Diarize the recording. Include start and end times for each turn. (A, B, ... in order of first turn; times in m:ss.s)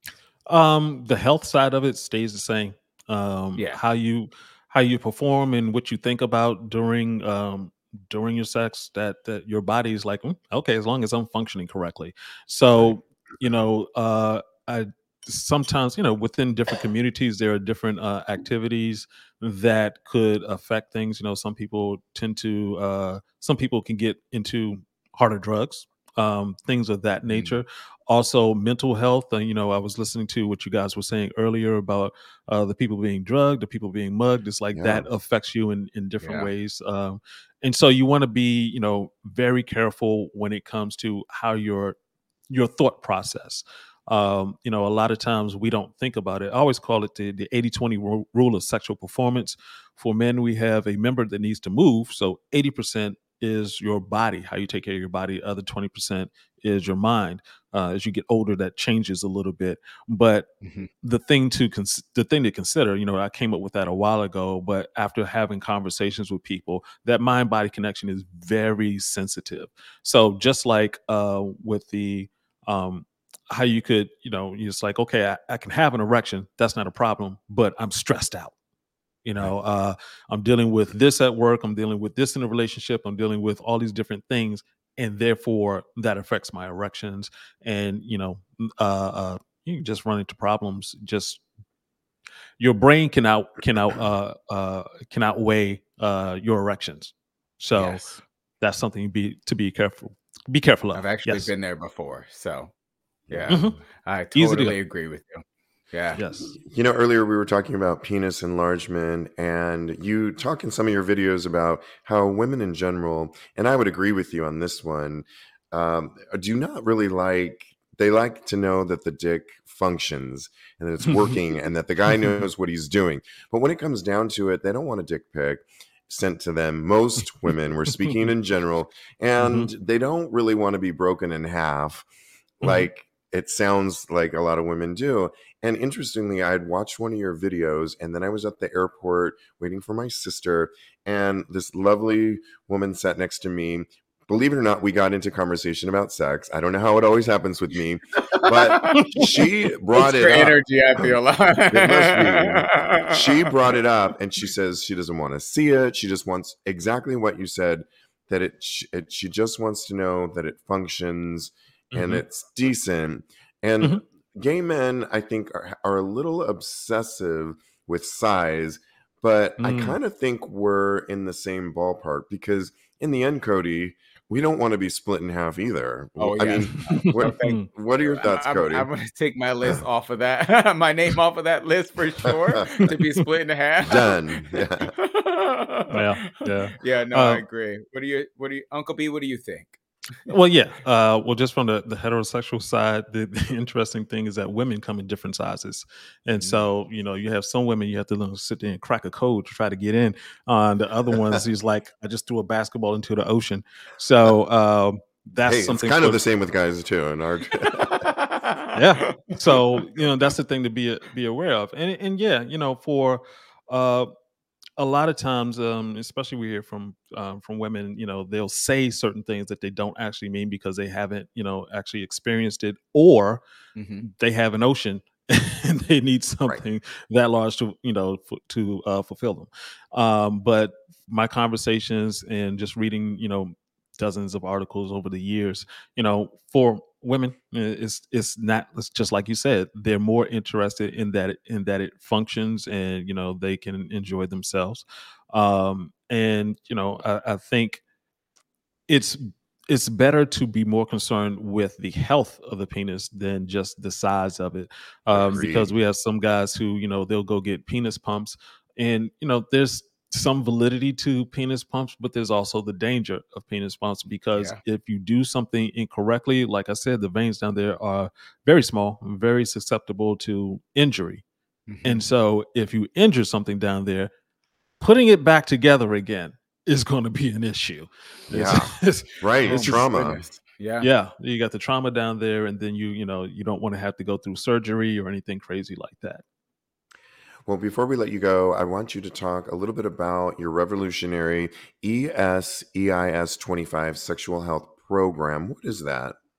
0:00.5-0:42.0 A
0:34.7-0:35.1 B
0:36.2-0:36.5 C
0:42.5-1:00.5 A
1:00.6-1:00.9 C
1:01.0-1:18.5 A
1:19.2-1:31.4 A
1:32.6-1:38.0 A
1:37.7-1:38.2 C
1:38.6-1:41.5 A
1:41.0-1:42.7 C
1:43.3-1:46.2 C
1:43.5-1:43.8 A
1:44.3-1:44.8 A
1:46.2-1:46.5 A
1:46.5-2:12.0 B
2:01.0-2:01.4 A
2:07.9-2:08.3 A
2:09.4-2:09.7 A
2:12.6-2:31.1 B
2:12.6-2:12.9 A
2:28.3-2:29.0 C
2:30.0-2:33.4 C
2:31.7-2:58.9 B
2:41.9-2:42.2 A
2:49.6-2:50.0 A
2:56.2-3:10.3 C
2:56.9-2:57.7 A
3:02.8-3:03.3 A
3:03.8-3:04.9 B
3:05.9-3:07.4 A
3:10.3-3:26.2 A
3:16.4-3:16.7 C
3:25.4-3:28.1 B
3:28.3-3:29.6 C
3:28.7-3:34.1 A
3:34.8-3:43.4 A
3:43.8-3:44.0 C
3:44.0-4:07.8 A
4:08.9-4:31.2 A
4:15.1-4:15.7 B
4:31.7-4:32.0 C
4:31.8-4:34.1 A
4:34.8-4:39.9 A
4:38.3-4:40.3 B
4:39.5-4:40.9 C
4:40.8-4:46.2 A
4:47.5-4:56.2 B